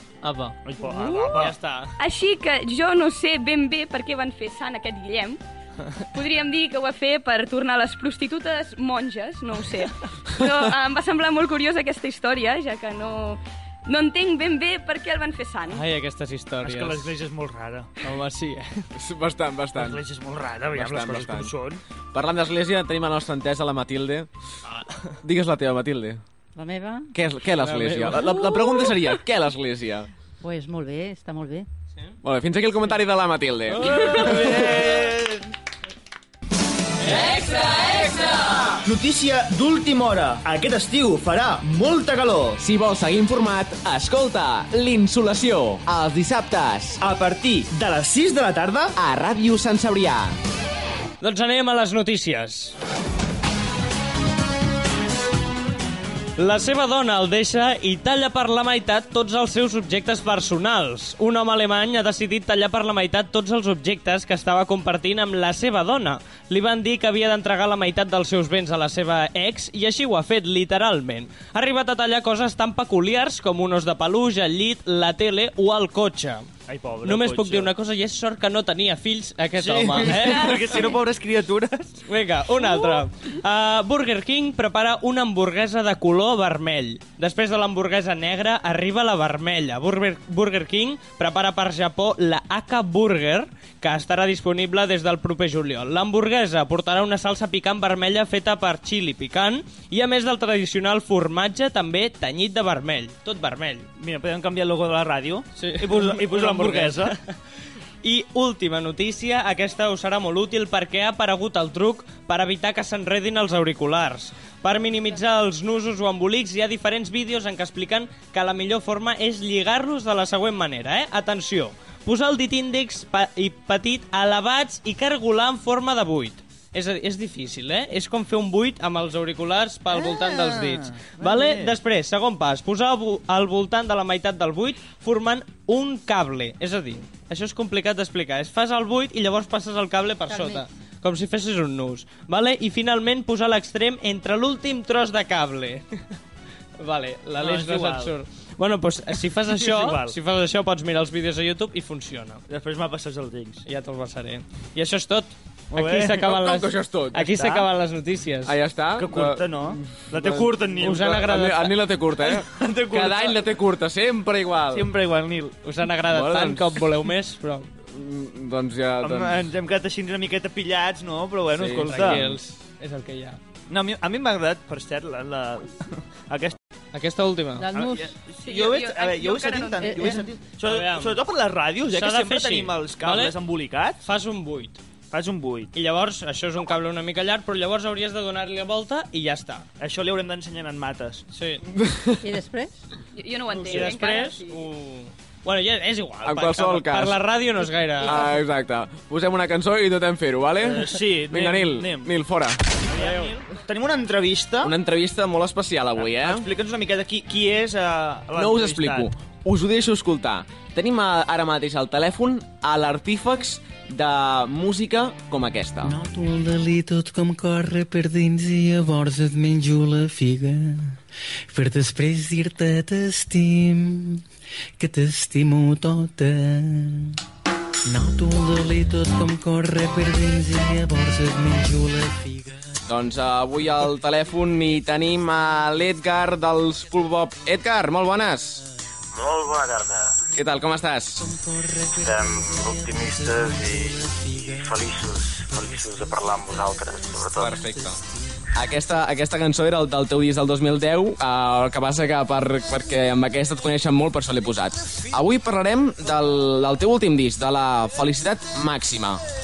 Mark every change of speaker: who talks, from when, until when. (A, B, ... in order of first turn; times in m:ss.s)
0:00.2-0:00.6 A
0:00.6-0:01.6 B
0:00.9-0:01.3 C
0:01.3-0:02.0 A
0:02.0-0:05.4 C
0:06.0-0:15.8 C
0:15.7-0:17.1 A
0:16.6-0:17.9 B
0:18.0-0:18.8 A
0:18.9-0:20.0 D
0:19.8-0:21.8 B
0:20.7-0:21.5 D
0:22.1-0:24.3 D
0:24.6-0:25.2 A
0:25.2-0:26.2 D
0:26.6-0:27.1 E
0:27.1-0:30.1 D
0:27.6-0:28.8 A
0:30.4-0:31.6 E
0:32.2-0:34.9 D
0:33.7-0:35.0 A
0:33.9-0:35.4 B
0:37.1-0:38.0 A
0:38.7-0:42.6 B
0:42.6-0:47.0 D
0:47.0-0:48.9 B
0:48.9-0:50.4 D
0:51.2-0:52.8 A
0:56.4-1:16.5 A
1:16.7-1:17.7 B
1:17.0-1:20.7 A
1:19.6-1:22.0 B
1:20.1-1:20.9 C
1:22.1-1:43.9 A
1:44.0-1:47.2 B
1:45.6-1:47.3 A
1:48.0-2:26.2 A
2:09.9-2:11.8 B
2:20.3-2:20.6 E
2:26.8-2:32.4 A
2:27.4-2:28.1 B
2:29.4-2:30.2 B
2:32.5-2:33.6 B
2:33.7-2:38.5 A
2:35.7-2:36.2 B
2:36.2-2:37.5 D
2:38.4-2:44.9 D
2:38.9-2:41.3 B
2:40.8-2:41.8 A
2:42.2-2:43.4 B
2:44.7-2:45.6 B
2:45.6-2:47.7 A
2:46.1-2:46.8 D
2:47.9-2:49.4 D
2:49.0-2:52.3 B
2:51.5-2:52.4 D
2:51.7-2:53.4 A
2:53.7-2:56.6 B
2:56.9-2:57.7 A
2:57.6-2:58.1 E
2:57.7-3:04.0 B
2:58.4-3:00.2 C
2:59.8-3:00.2 E
3:00.6-3:01.2 A
3:01.9-3:03.4 A
3:04.0-3:04.8 A
3:05.1-3:05.7 B
3:05.7-3:09.6 A
3:09.8-3:11.2 B
3:11.3-3:11.6 A
3:11.7-3:12.2 D
3:12.2-3:12.8 E
3:13.1-3:14.6 C
3:13.6-3:18.3 A
3:13.6-3:14.0 B
3:16.2-3:17.2 D
3:18.0-3:18.4 E
3:18.0-3:22.6 D
3:20.6-3:22.2 B
3:22.9-3:24.7 B
3:22.9-3:23.4 A
3:24.6-3:26.5 D
3:26.0-3:29.1 B
3:28.3-3:35.9 D
3:35.8-3:41.0 F
3:41.5-3:44.2 F
3:44.8-3:47.2 F
3:47.8-3:52.8 F
3:52.9-3:58.6 D
3:59.1-4:00.2 G
4:00.3-4:01.2 D
4:01.2-4:04.8 F
4:02.0-4:07.6 G
4:05.5-4:05.9 F
4:07.4-4:08.0 D
4:07.5-4:08.0 F
4:08.5-4:19.2 D